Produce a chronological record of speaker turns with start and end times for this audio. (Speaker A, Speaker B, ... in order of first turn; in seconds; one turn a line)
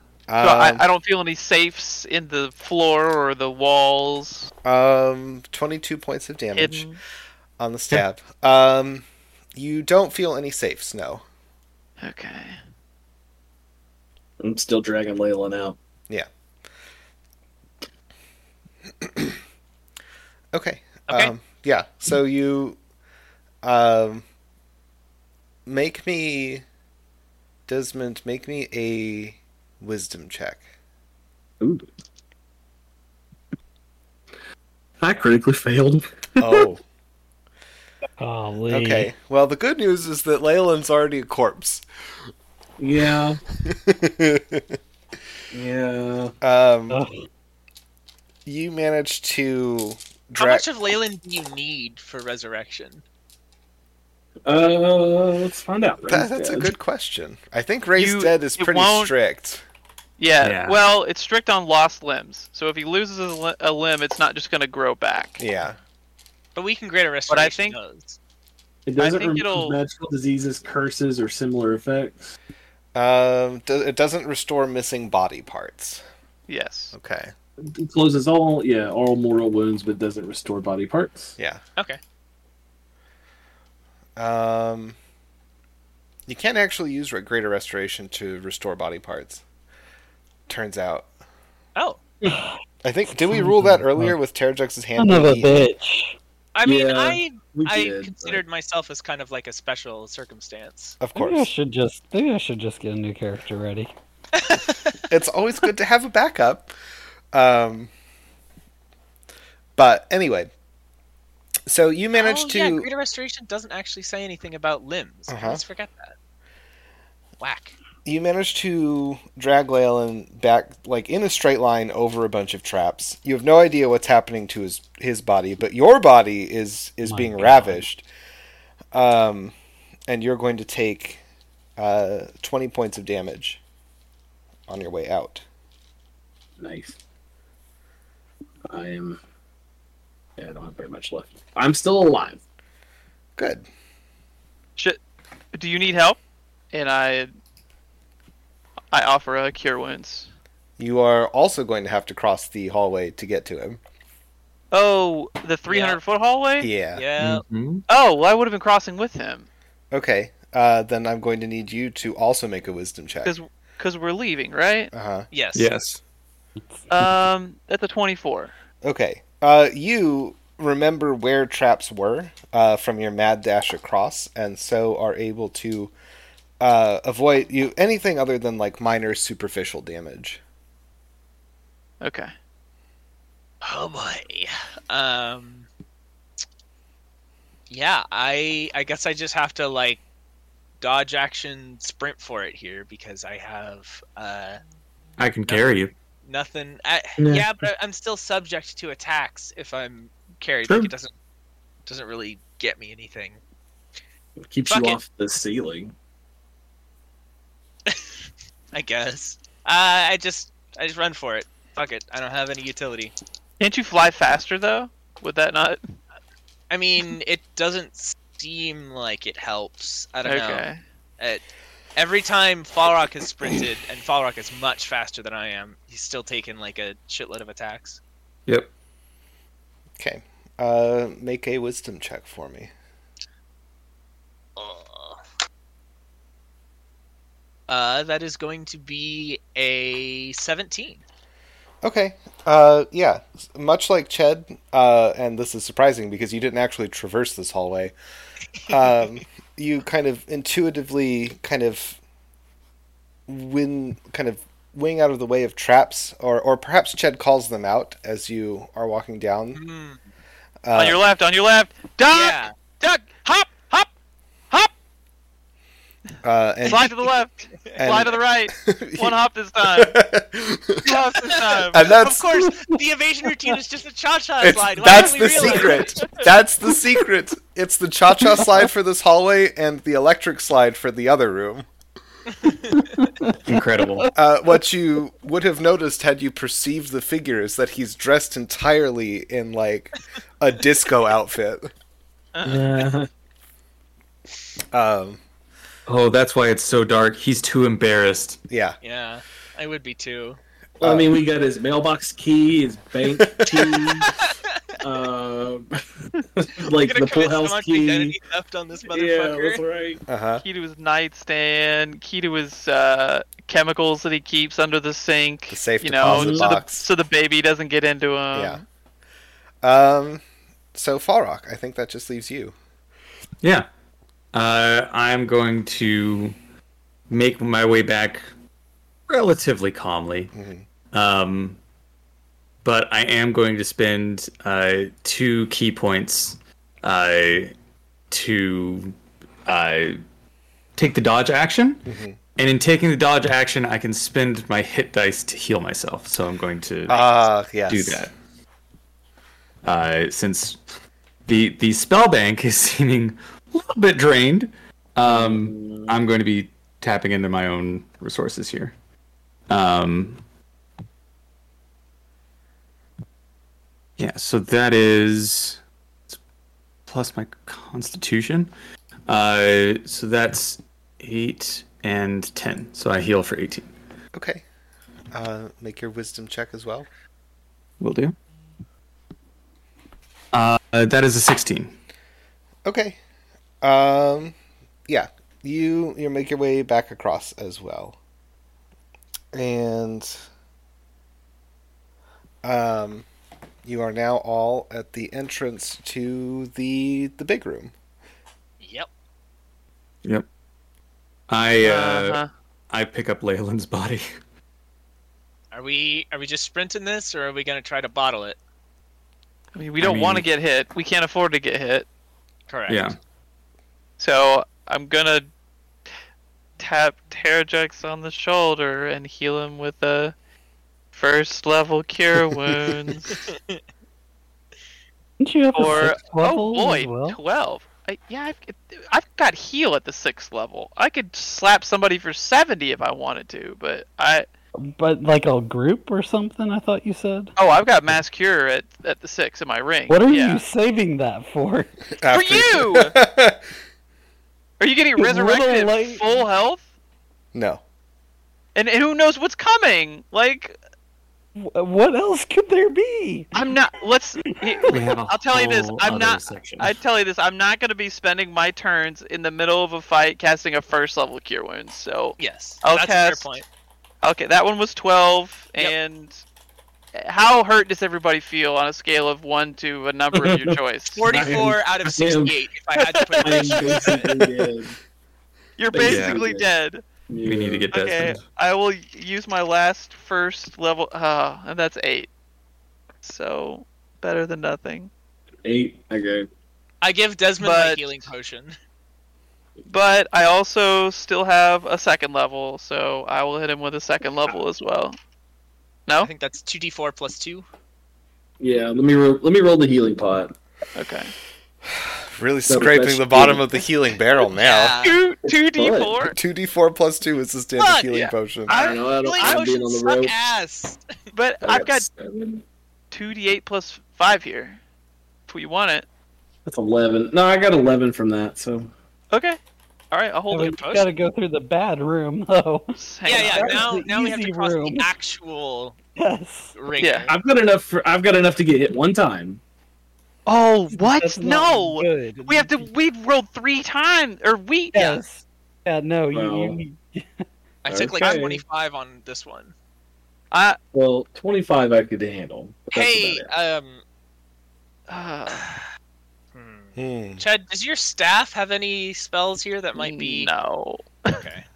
Speaker A: 0.3-0.8
Speaker B: 0.4-4.5
Speaker A: 4.6-6.9
Speaker B: 6.5-7.0
Speaker A: 7.6-11.2
Speaker B: 12.0-12.6
Speaker C: 14.4-15.8
Speaker A: 19.0-19.4
Speaker A: 20.5-22.8
Speaker D: 21.1-21.3
Speaker A: 23.6-24.2
Speaker A: 25.6-26.6
Speaker A: 27.7-30.6
Speaker C: 31.6-31.9
Speaker C: 35.0-36.7
Speaker A: 36.4-36.8
Speaker E: 38.2-39.1
Speaker A: 38.7-41.8
Speaker C: 42.8-43.4
Speaker A: 43.6-44.8
Speaker C: 45.5-46.3
Speaker A: 46.4-47.0
Speaker E: 46.9-47.2
Speaker A: 48.5-50.6
Speaker D: 50.4-53.0
Speaker C: 54.5-56.7
Speaker A: 56.1-59.6
Speaker B: 58.0-59.1
Speaker B: 60.2-65.4
Speaker F: 60.4-60.8
Speaker A: 65.4-65.8
Speaker D: 66.5-68.2
Speaker B: 67.3-67.8
Speaker C: 68.8-72.3
Speaker B: 69.0-69.8
Speaker A: 72.9-76.0
Speaker B: 76.5-76.9
Speaker A: 76.9-77.3
Speaker C: 77.6-81.3
Speaker A: 84.2-85.0
Speaker A: 86.3-89.4
Speaker A: 90.5-91.1
Speaker D: 91.8-92.0
Speaker A: 92.8-95.7
Speaker E: 93.1-94.1
Speaker E: 95.0-96.2
Speaker D: 96.5-101.0
Speaker C: 96.6-98.4
Speaker A: 101.0-101.5
Speaker E: 101.1-103.9
Speaker D: 104.3-105.0
Speaker A: 105.1-106.7
Speaker A: 107.3-107.9
Speaker A: 109.8-110.5
Speaker A: 111.7-112.9
Speaker D: 112.1-116.1
Speaker A: 115.3-115.6
Speaker D: 117.4-117.7
Speaker A: 118.0-128.0
Speaker E: 127.0-127.8
Speaker A: 128.9-129.5
Speaker A: 130.1-131.2
Speaker A: 131.8-133.6
Speaker A: 134.7-135.4
Speaker C: 136.6-137.0
Speaker C: 138.7-139.2
Speaker C: 140.4-142.4
Speaker A: 143.4-143.7
Speaker B: 145.5-146.2
Speaker B: 146.7-147.3
Speaker B: 148.9-150.3
Speaker A: 150.8-153.8
Speaker B: 154.7-156.7
Speaker D: 155.7-156.0
Speaker A: 156.6-157.0
Speaker D: 156.9-157.4
Speaker F: 157.2-157.8
Speaker B: 157.9-159.5
Speaker A: 159.9-163.3
Speaker B: 163.2-164.9
Speaker A: 164.9-165.3
Speaker D: 165.3-165.7
Speaker F: 165.5-166.0
Speaker B: 166.9-168.5
Speaker A: 168.8-175.9
Speaker A: 176.6-180.4
Speaker B: 182.0-182.3
Speaker D: 183.6-185.7
Speaker D: 187.7-190.0
Speaker D: 190.8-194.6
Speaker F: 195.2-195.9
Speaker D: 195.4-195.7
Speaker D: 196.2-201.1
Speaker C: 197.2-197.5
Speaker C: 200.7-200.9
Speaker D: 201.8-203.4
Speaker C: 204.4-205.9
Speaker D: 204.7-205.0
Speaker D: 207.8-208.2
Speaker D: 208.7-213.1
Speaker B: 213.6-215.8
Speaker D: 216.7-220.6
Speaker B: 220.2-220.8
Speaker D: 221.9-228.0
Speaker A: 230.0-232.7
Speaker D: 234.6-235.2
Speaker D: 237.7-241.0
Speaker A: 241.8-247.9
Speaker A: 248.7-252.0
Speaker A: 253.3-259.6
Speaker D: 259.5-260.0
Speaker A: 260.6-261.0
Speaker B: 260.7-263.9
Speaker D: 262.1-262.5
Speaker A: 266.2-266.9
Speaker B: 266.7-270.0
Speaker D: 267.6-268.1
Speaker A: 267.8-269.2
Speaker A: 269.7-270.9
Speaker B: 270.8-271.9
Speaker A: 271.7-272.2
Speaker D: 271.8-276.3
Speaker A: 274.4-281.7
Speaker E: 278.2-278.6
Speaker D: 282.4-282.8
Speaker E: 282.7-284.1
Speaker F: 283.5-284.1
Speaker A: 284.1-291.7
Speaker B: 292.3-292.8
Speaker C: 292.4-293.1
Speaker A: 294.7-295.2
Speaker F: 295.9-298.4
Speaker A: 298.5-298.8
Speaker D: 298.8-300.4
Speaker A: 300.8-301.1
Speaker C: 300.8-304.1
Speaker A: 303.2-303.7
Speaker D: 303.7-304.3
Speaker C: 304.8-308.1
Speaker D: 306.8-309.6
Speaker C: 308.9-310.0
Speaker A: 310.1-310.4
Speaker B: 310.4-318.6
Speaker A: 315.5-316.9
Speaker C: 316.0-316.4
Speaker A: 318.3-318.6
Speaker A: 319.6-320.2
Speaker A: 320.7-322.6
Speaker F: 324.3-326.4
Speaker F: 327.1-328.2
Speaker F: 329.1-330.3
Speaker A: 330.3-330.6
Speaker F: 330.9-331.6
Speaker F: 332.6-337.5
Speaker F: 338.1-340.0
Speaker F: 340.8-341.9
Speaker A: 341.9-342.2
Speaker F: 342.4-347.1
Speaker A: 346.9-348.0
Speaker F: 347.7-348.1
Speaker F: 349.6-350.6
Speaker F: 351.2-358.7
Speaker C: 355.1-356.0
Speaker F: 359.5-360.2
Speaker F: 364.0-366.2
Speaker F: 366.9-368.5
Speaker F: 369.1-373.7
Speaker A: 374.1-374.4
Speaker A: 375.1-376.9
Speaker F: 377.8-378.1
Speaker F: 380.3-381.7
Speaker A: 382.6-383.0
Speaker A: 383.6-384.3
Speaker A: 384.9-388.0
Speaker A: 389.3-390.1
Speaker A: 392.4-393.1
Speaker A: 393.6-397.7
Speaker D: 398.6-398.9
Speaker F: 401.3-402.2
Speaker B: 401.6-402.3
Speaker F: 402.7-404.0
Speaker D: 405.5-408.4
Speaker B: 409.5-411.9
Speaker F: 409.8-410.2
Speaker D: 412.5-412.9
Speaker F: 412.7-413.0
Speaker B: 414.0-415.3
Speaker B: 416.6-420.1
Speaker B: 420.9-423.2
Speaker D: 423.3-423.6
Speaker E: 425.2-427.2
Speaker B: 425.5-434.2
Speaker E: 434.8-437.3
Speaker B: 437.4-440.4
Speaker E: 439.9-441.7
Speaker A: 442.0-443.4
Speaker B: 442.1-442.9
Speaker B: 444.6-446.6
Speaker E: 445.0-446.2
Speaker A: 447.3-447.6
Speaker B: 448.5-450.6
Speaker E: 451.4-453.4
Speaker B: 453.3-463.3
Speaker E: 454.4-454.8
Speaker F: 454.7-456.7
Speaker D: 462.2-463.4
Speaker B: 464.0-466.2
Speaker B: 466.9-471.2
Speaker C: 470.1-472.4
Speaker D: 470.9-474.1
Speaker B: 472.8-474.1
Speaker C: 473.2-474.8
Speaker B: 475.6-476.8
Speaker C: 475.7-476.5
Speaker F: 475.8-476.2
Speaker C: 477.1-477.7
Speaker F: 477.2-478.2
Speaker B: 477.7-482.1
Speaker B: 483.0-484.9
Speaker C: 485.4-486.3
Speaker D: 486.8-488.5
Speaker B: 487.4-487.8
Speaker B: 489.7-495.0
Speaker D: 496.0-497.4
Speaker C: 498.4-500.3
Speaker B: 500.8-501.1
Speaker A: 501.7-504.8
Speaker C: 502.5-503.5
Speaker D: 504.3-505.0
Speaker B: 504.8-506.1
Speaker C: 505.5-506.0
Speaker A: 506.1-508.5
Speaker D: 507.6-510.8
Speaker C: 508.5-510.1
Speaker B: 508.5-509.4
Speaker B: 511.1-511.9
Speaker C: 511.4-512.4
Speaker B: 512.9-514.6
Speaker B: 515.3-515.9
Speaker C: 516.5-518.7
Speaker B: 519.1-519.4
Speaker B: 519.9-520.8
Speaker E: 520.3-524.9
Speaker D: 520.5-520.8
Speaker B: 522.8-523.7
Speaker D: 523.0-525.8
Speaker E: 526.0-526.5
Speaker D: 526.5-527.1
Speaker B: 526.8-527.1
Speaker C: 527.1-529.4
Speaker B: 530.3-535.0
Speaker E: 530.7-532.6
Speaker E: 534.7-537.2
Speaker C: 536.1-536.6
Speaker D: 537.6-539.5
Speaker C: 537.7-538.4
Speaker B: 540.3-540.6
Speaker C: 540.7-543.3
Speaker D: 542.7-543.8
Speaker B: 544.9-545.5
Speaker D: 546.3-550.3
Speaker A: 546.8-547.2
Speaker B: 549.8-551.2
Speaker D: 551.1-551.5